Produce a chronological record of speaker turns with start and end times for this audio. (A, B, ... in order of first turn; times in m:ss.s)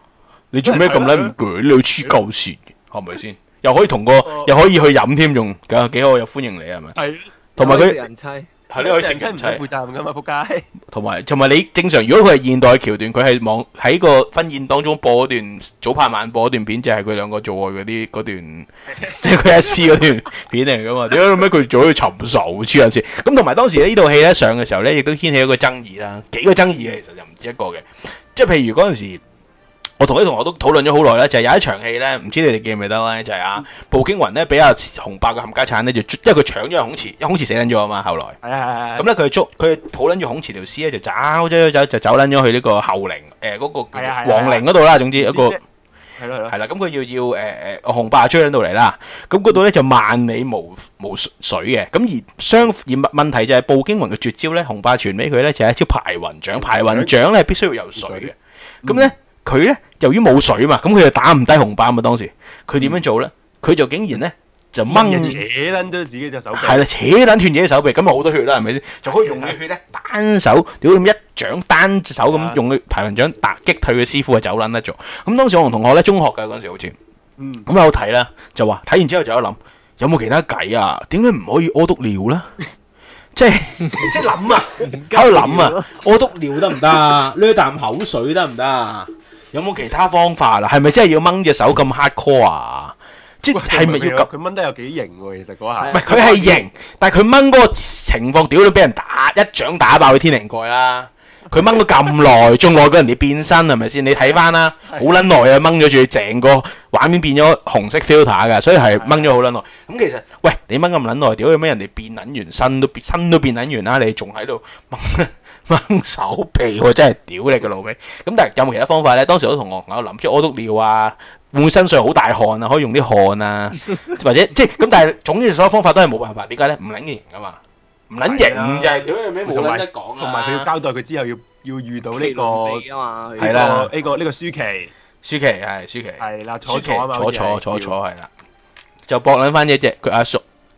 0:00.5-0:06.9 A
0:00.6-0:01.3 B
0:04.2-0:04.5 B
0:06.9-0:08.0 B
0:07.6-0:08.5 C
0:07.6-0:08.0 A
0:08.7-0:09.6 A
0:08.8-0:10.7 B
0:10.9-0:18.7 A
0:18.9-0:20.4 B
0:19.2-0:29.2 A
0:30.0-0:38.4 A
0:38.4-0:39.1 B
0:39.0-0:45.6 A
0:43.9-0:45.6 B
0:46.2-0:46.5 B
0:46.5-1:05.4 A
0:56.8-0:57.1 B
0:58.0-0:58.3 B
0:58.8-0:59.1 B
1:02.8-1:03.0 B
1:04.8-1:06.8 B
1:06.5-1:17.0 A
1:09.0-1:09.6 B
1:12.2-1:12.6 B
1:17.4-1:17.7 B
1:17.6-1:22.5 A
1:23.3-1:34.3 A
1:23.9-1:24.1 C
1:24.8-1:26.0 C
1:26.6-1:27.0 C
1:33.5-1:36.6 B
1:35.8-1:36.3 C
1:35.9-2:10.7 A
1:44.8-1:45.2 B
1:48.8-1:49.3 B
2:08.2-2:12.8 B
2:12.2-2:14.1 C
2:13.4-2:14.9 B
2:13.4-2:13.9 A
2:15.2-2:18.3 A
2:16.2-2:17.9 B
2:19.1-2:20.4 A